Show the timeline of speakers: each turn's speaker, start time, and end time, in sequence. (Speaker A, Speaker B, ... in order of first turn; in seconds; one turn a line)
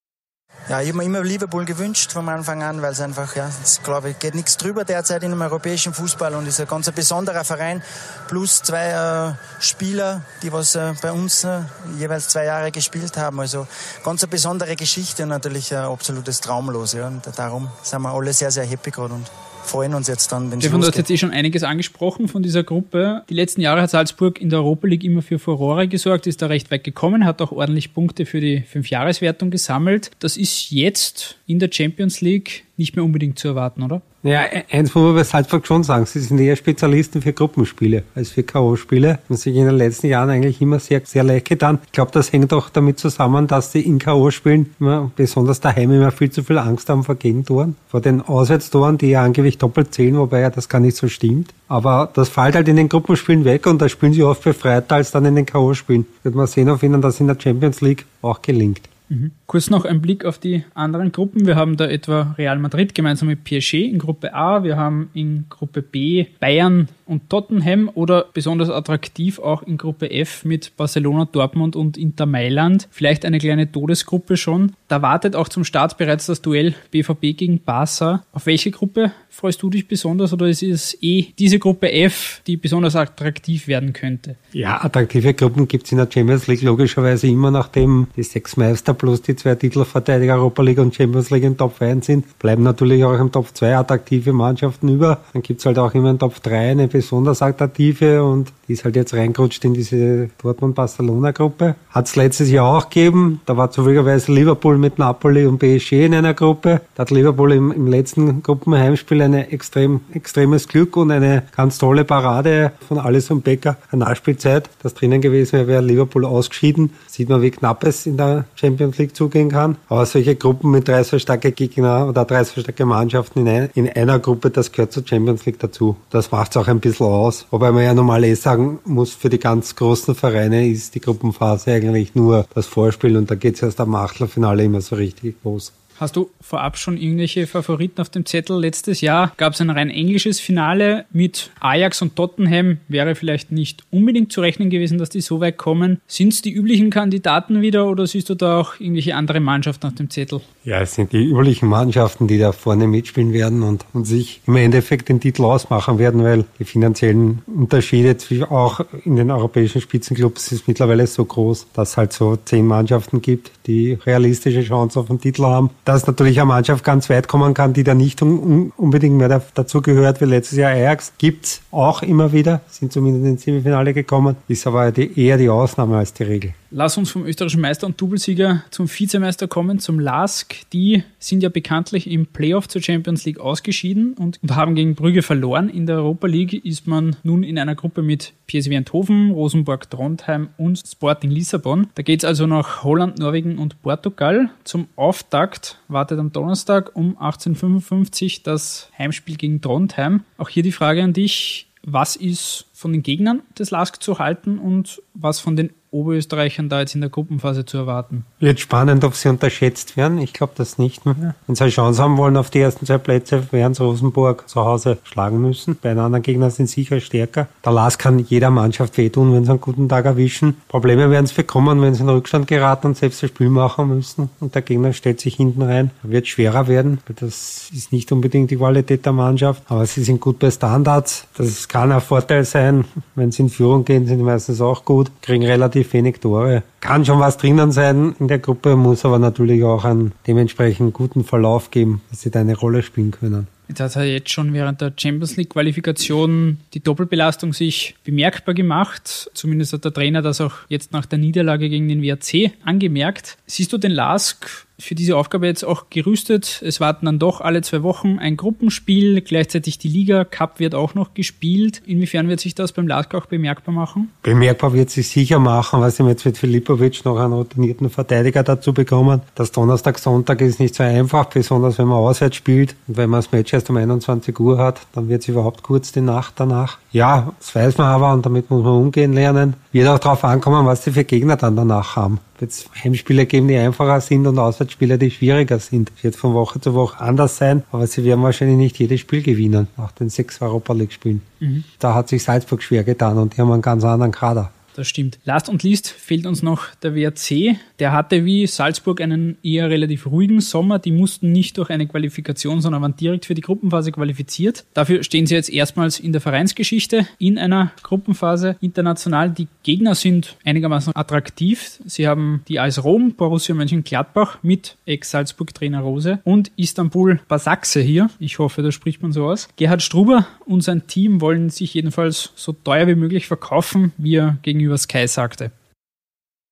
Speaker A: 0.7-21.0
Speaker B: 20.6-34.0
Speaker C: 34.2-58.9
Speaker B: 59.1-84.4
Speaker C: 84.5-135.7
Speaker B: 136.0-150.4
Speaker C: 150.7-176.6
Speaker B: 176.7-208.3
Speaker C: 208.4-243.5
Speaker B: 243.7-264.1
Speaker C: 264.2-291.2
Speaker B: 291.4-291.7
Speaker C: 291.8-294.5
Speaker B: 294.8-325.5